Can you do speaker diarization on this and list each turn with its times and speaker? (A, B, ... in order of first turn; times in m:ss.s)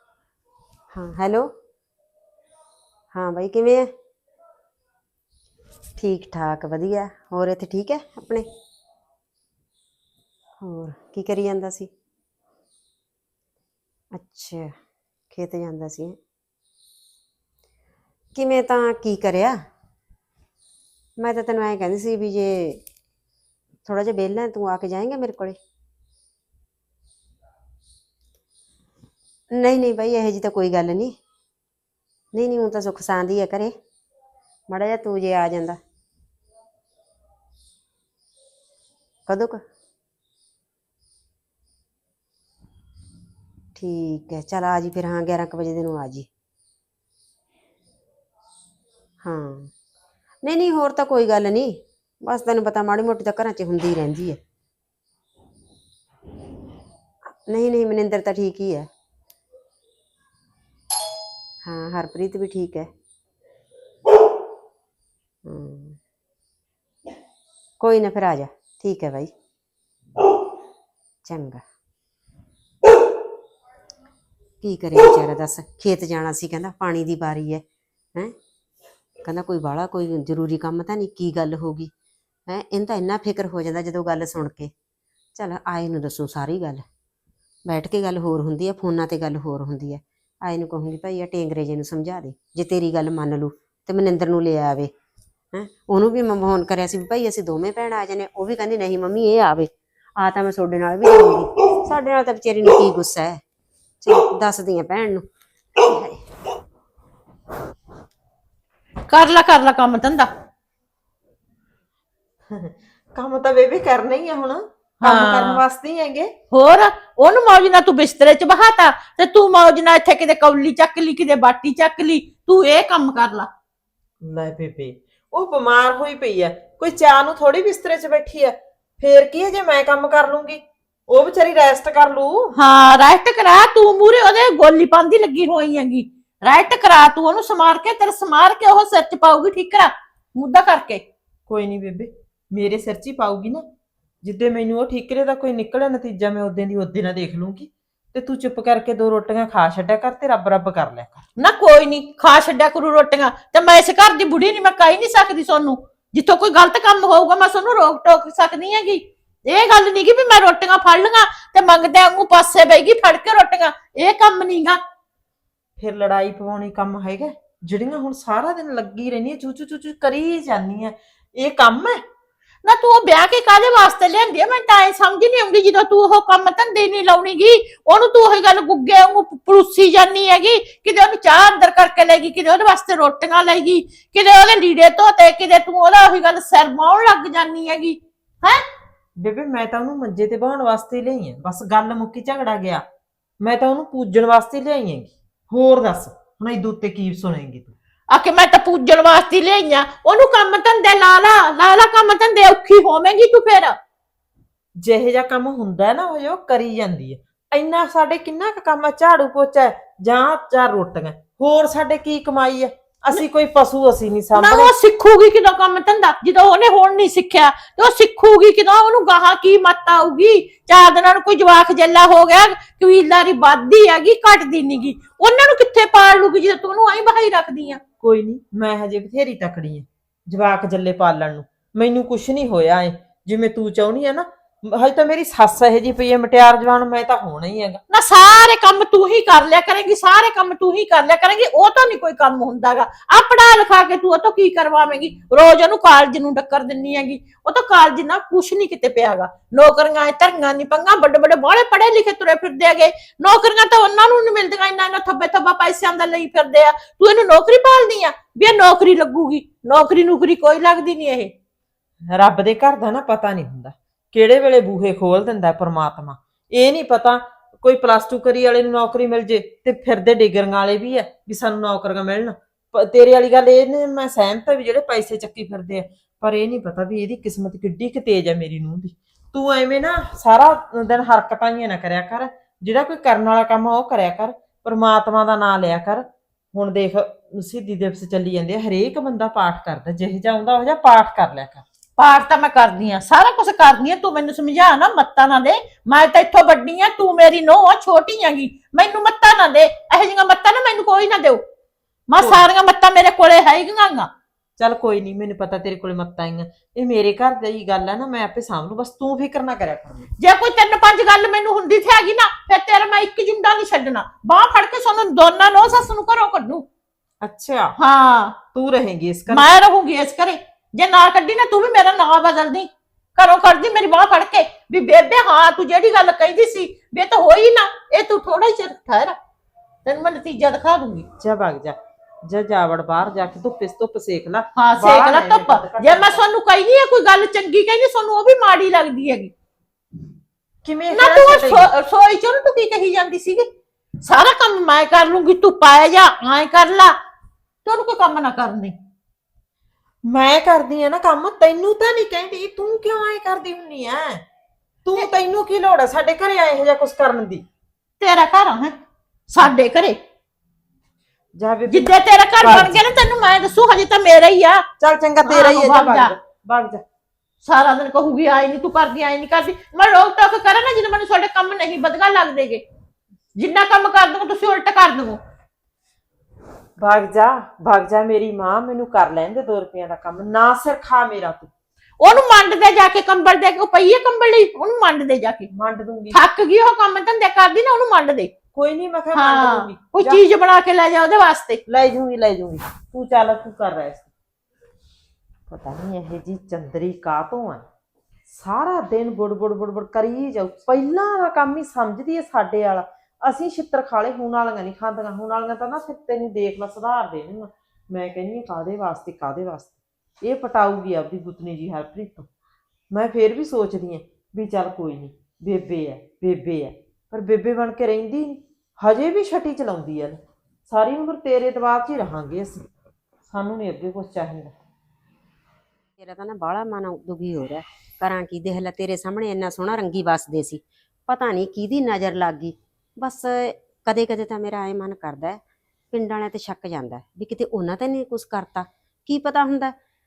0:00.9-0:01.5 A
0:03.1-0:03.9 A
0:06.0-0:08.4 A
0:10.6-0:11.9 A
0:14.1-0:14.7 A
0:15.3-0:16.2 A
0:18.3-0:19.6 A
0:21.2-0:22.8 A
0:23.8-0:25.6 A
0:29.5-0:31.2 A
0:32.3-0:33.7 A
0:34.7-0:35.8 A
0:39.3-0:39.6 A
0:43.8-0:46.2 A
0:49.2-0:49.7 A
0:50.4-0:54.4 A
0:57.5-0:58.9 A
1:01.6-1:02.9 A
1:05.4-1:06.0 A
1:07.8-1:09.3 A
1:11.2-1:11.6 A
1:14.6-1:17.6 A
1:19.2-1:21.9 A
1:22.5-1:24.7 A
1:25.4-1:26.8 A
1:27.6-1:34.9 A
1:35.5-1:43.4 A
1:44.0-1:46.2 A
1:49.1-1:50.3 B
1:52.5-1:56.3 C
1:55.0-1:55.6 B
1:56.5-2:03.5 B
2:04.2-2:12.4 C
2:12.6-2:21.0 B
2:21.5-2:23.6 C
2:24.2-2:31.2 C
2:31.4-2:44.8 B
2:45.8-2:52.0 C
2:52.6-3:08.6 B
3:09.2-3:12.8 C
3:13.4-3:17.7 C
3:18.1-3:23.8 B
3:24.8-3:34.7 C
3:34.3-3:47.8 B
3:48.0-3:57.8 C
3:57.9-4:21.3 B
4:22.1-4:51.6 C
4:52.0-5:01.4 B
5:02.1-5:04.1 B
5:04.6-5:10.1 C
5:10.2-5:16.6 B
5:17.2-5:17.7 C
5:17.8-5:18.4 B
5:18.5-5:19.6 C
5:19.3-5:29.1 B
5:29.8-5:31.1 B
5:31.2-5:36.2 C
5:34.5-5:39.3 B
5:40.6-5:41.6 C
5:40.9-5:43.5 B
5:44.0-5:46.9 B
5:47.6-5:48.8 B
5:50.1-5:54.2 C
5:54.8-5:57.4 C
5:58.0-5:58.8 B
5:59.3-6:00.0 B
6:01.4-6:02.8 C
6:01.7-6:04.6 B
6:04.8-6:06.8 C
6:05.2-6:06.1 B
6:07.4-6:12.6 B
6:13.4-6:15.2 B
6:16.8-6:21.5 C
6:22.0-6:25.5 B
6:25.5-6:26.2 C
6:26.1-6:28.3 B
6:28.5-6:30.2 C
6:29.1-6:31.6 B
6:31.7-6:34.1 C
6:35.5-6:37.6 C
6:38.3-6:49.7 C
6:50.2-6:52.3 C
6:52.9-7:02.6 C
7:03.3-7:04.5 C
7:06.0-7:15.4 A
7:15.9-7:19.7 A